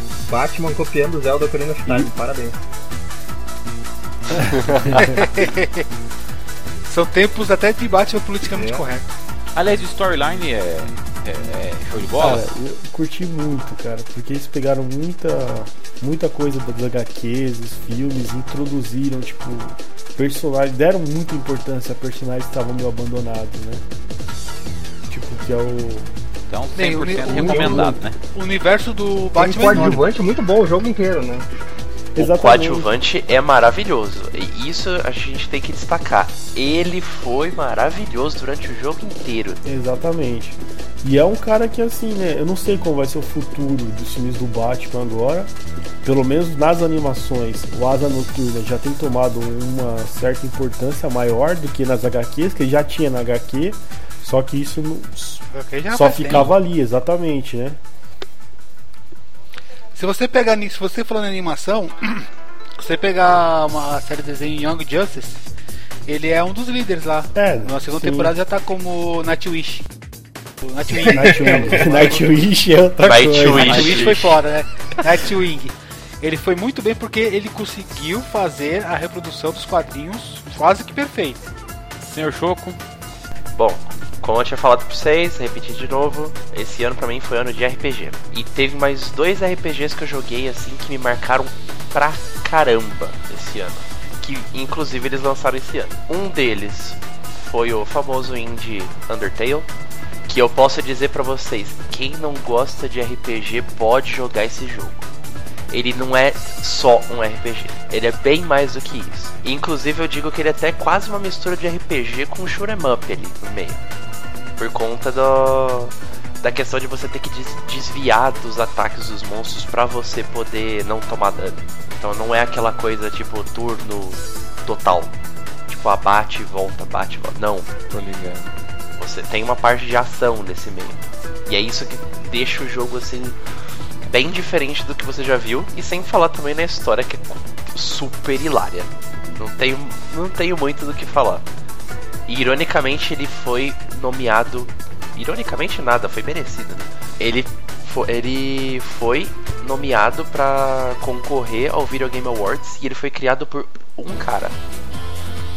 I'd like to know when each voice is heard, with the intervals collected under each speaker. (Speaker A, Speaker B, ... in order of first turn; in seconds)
Speaker A: 0.2-2.6, 8.5-8.8, 29.4-31.5, 71.0-72.1
Speaker B: 1.9-2.1, 4.4-5.2, 12.2-23.8, 25.1-26.1, 27.2-28.0, 29.7-30.1, 32.1-32.9, 39.6-45.5, 46.0-57.8, 67.3-68.3, 71.0-73.9
Speaker C: 5.0-5.9, 6.9-9.1, 26.8-30.1, 55.5-56.5, 60.0-65.4, 66.1-69.9, 70.6-72.3, 73.5-81.4
Speaker D: 9.5-12.5, 26.5-28.2, 73.3-74.3, 82.0-82.8, 127.9-128.5
Speaker E: 32.2-39.6, 73.0-74.3, 83.6-99.7, 100.3-105.1, 105.7-113.8, 114.6-125.2, 125.7-127.7, 129.0-133.4, 134.1-141.4, 142.3-154.6